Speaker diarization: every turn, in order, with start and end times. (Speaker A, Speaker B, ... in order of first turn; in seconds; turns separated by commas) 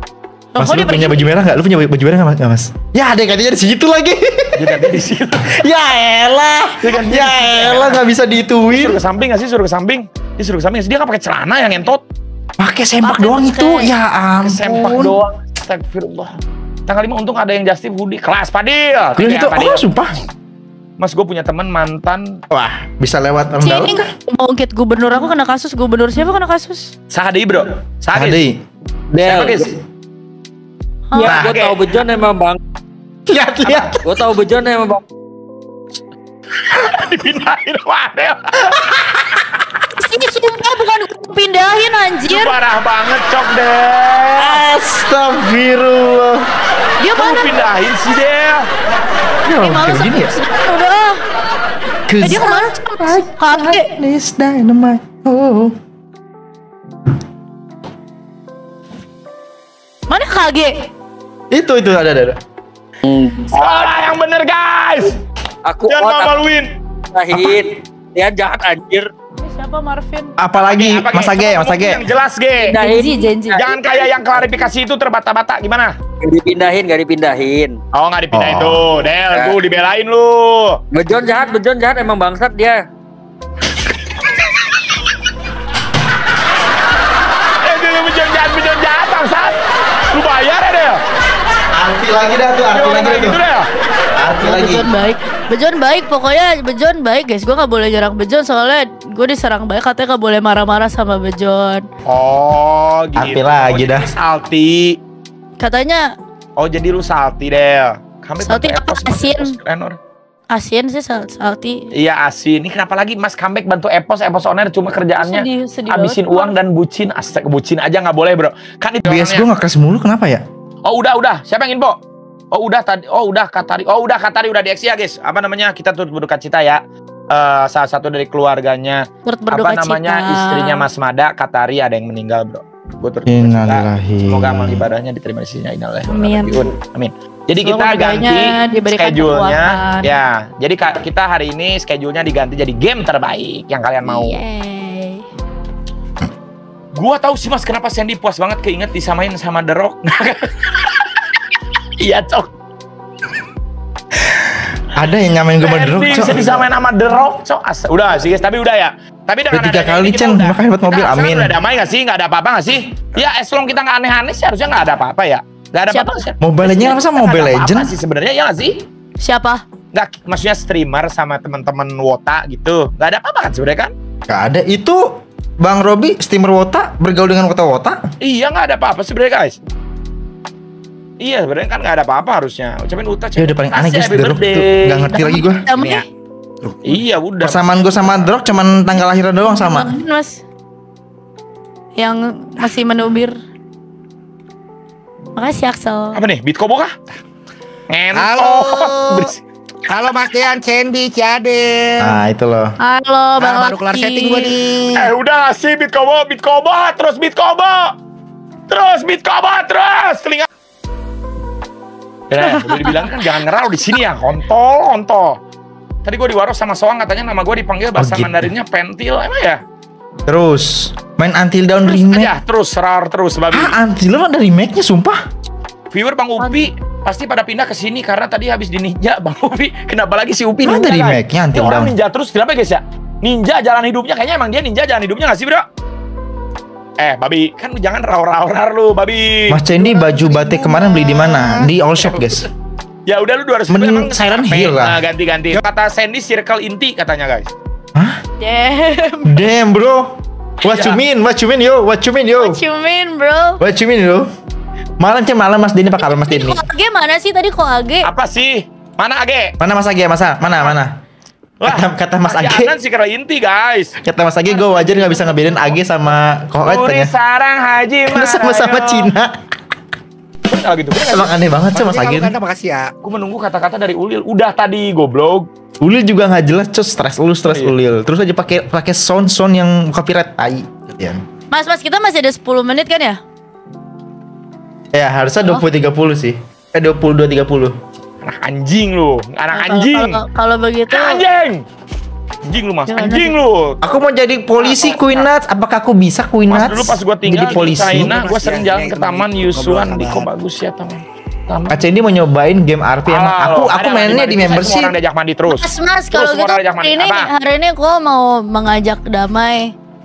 Speaker A: 0.5-1.3, Speaker B: 0.6-9.0, Speaker C: 4.6-5.6, Speaker C: 6.8-8.0, Speaker C: 8.7-12.0, Speaker B: 12.6-15.2, Speaker A: 13.0-13.9, Speaker C: 14.4-19.9, Speaker B: 19.2-20.1, Speaker C: 21.0-22.4, Speaker B: 22.5-24.1, Speaker A: 23.6-26.9, Speaker C: 27.1-28.4, Speaker B: 28.1-28.6, Speaker D: 29.1-29.7, Speaker C: 29.2-29.7, Speaker A: 31.1-31.4, Speaker D: 31.2-32.6, Speaker B: 31.3-31.5, Speaker C: 31.3-31.8, Speaker B: 33.3-34.0, Speaker D: 34.0-35.0, Speaker C: 36.7-38.8, Speaker A: 40.0-42.5, Speaker C: 42.3-44.6, Speaker B: 44.4-46.4, Speaker A: 47.0-47.5, Speaker C: 47.2-48.7, Speaker B: 49.5-50.4, Speaker A: 49.5-51.2, Speaker B: 52.1-55.8, Speaker A: 52.2-53.9, Speaker A: 60.1-60.9, Speaker B: 61.5-62.4, Speaker D: 63.0-63.9, Speaker C: 63.5-65.2, Speaker D: 65.7-66.4, Speaker C: 65.8-66.7, Speaker D: 67.1-69.1, Speaker A: 69.4-70.3, Speaker B: 70.4-72.0, Speaker C: 70.6-72.8, Speaker D: 72.6-73.3, Speaker A: 72.8-73.7, Speaker C: 73.5-76.0, Speaker D: 76.2-77.8, Speaker C: 77.9-80.8, Speaker B: 78.3-78.9, Speaker D: 79.3-79.6, Speaker D: 80.9-82.8, Speaker C: 87.6-89.6, Speaker C: 90.1-91.0, Speaker B: 91.8-93.4, Speaker C: 92.7-93.7, Speaker B: 94.2-94.9, Speaker A: 94.4-101.9, Speaker C: 102.1-105.0, Speaker B: 103.2-104.1, Speaker A: 105.6-106.1, Speaker C: 106.6-110.0, Speaker A: 108.4-109.5, Speaker A: 110.5-111.9, Speaker C: 111.9-119.5, Speaker A: 115.2-116.6, Speaker B: 119.0-120.5, Speaker C: 120.8-122.0, Speaker C: 122.5-144.4, Speaker A: 129.3-130.9, Speaker B: 133.3-134.9, Speaker A: 136.1-136.7, Speaker A: 137.6-140.1, Speaker A: 144.0-145.2, Speaker C: 146.9-151.0, Speaker C: 152.0-152.5, Speaker B: 154.3-156.6, Speaker C: 155.6-168.8, Speaker B: 159.5-161.6, Speaker A: 165.9-166.2, Speaker B: 166.4-167.9, Speaker A: 169.2-169.6, Speaker C: 169.9-173.9, Speaker B: 174.3-178.0, Speaker C: 178.2-179.6, Speaker C: 181.2-185.1, Speaker B: 183.4-185.6, Speaker A: 185.1-186.1, Speaker E: 186.6-186.9, Speaker C: 186.8-188.4, Speaker B: 187.4-189.9, Speaker A: 189.4-190.4, Speaker A: 192.0-193.4, Speaker A: 195.4-196.2, Speaker C: 196.2-196.9, Speaker C: 197.9-199.4, Speaker E: 198.1-199.3, Speaker E: 199.9-202.2, Speaker B: 202.0-202.7, Speaker A: 202.8-204.5, Speaker E: 203.4-205.1, Speaker C: 205.0-207.9, Speaker C: 208.7-210.5, Speaker C: 212.3-215.4, Speaker A: 212.4-213.1, Speaker C: 216.1-219.6, Speaker B: 218.0-218.5, Speaker B: 220.3-222.3, Speaker C: 221.9-223.8, Speaker B: 223.5-225.2, Speaker C: 225.9-235.7, Speaker A: 226.4-226.7, Speaker B: 230.6-231.9, Speaker C: 237.0-239.6, Speaker B: 239.5-242.5, Speaker A: 240.0-241.0, Speaker E: 240.8-241.6, Speaker C: 242.0-242.5, Speaker C: 243.1-247.5, Speaker B: 243.7-245.0, Speaker A: 248.4-249.4, Speaker B: 249.3-252.6, Speaker C: 250.7-251.0, Speaker A: 252.4-253.6, Speaker B: 253.6-254.3, Speaker B: 255.0-256.6, Speaker A: 256.0-258.1, Speaker C: 258.0-259.5, Speaker B: 259.6-261.0, Speaker C: 260.5-260.8, Speaker C: 261.6-263.9, Speaker B: 261.6-262.7, Speaker B: 264.0-267.1, Speaker A: 264.6-265.7, Speaker C: 266.6-269.1, Speaker B: 268.1-269.3, Speaker C: 270.5-271.4, Speaker B: 271.0-272.4, Speaker E: 271.7-272.9, Speaker C: 273.0-275.5, Speaker B: 275.8-281.2, Speaker C: 277.5-277.8, Speaker A: 281.5-283.2, Speaker B: 284.9-287.8, Speaker C: 288.2-290.2, Speaker A: 289.5-291.2, Speaker C: 290.9-291.6, Speaker C: 292.5-293.9, Speaker A: 292.9-293.4, Speaker B: 293.8-298.1, Speaker C: 294.6-295.3, Speaker C: 296.5-301.8, Speaker E: 297.6-300.3, Speaker B: 301.7-304.9, Speaker C: 303.1-307.3, Speaker A: 305.5-309.7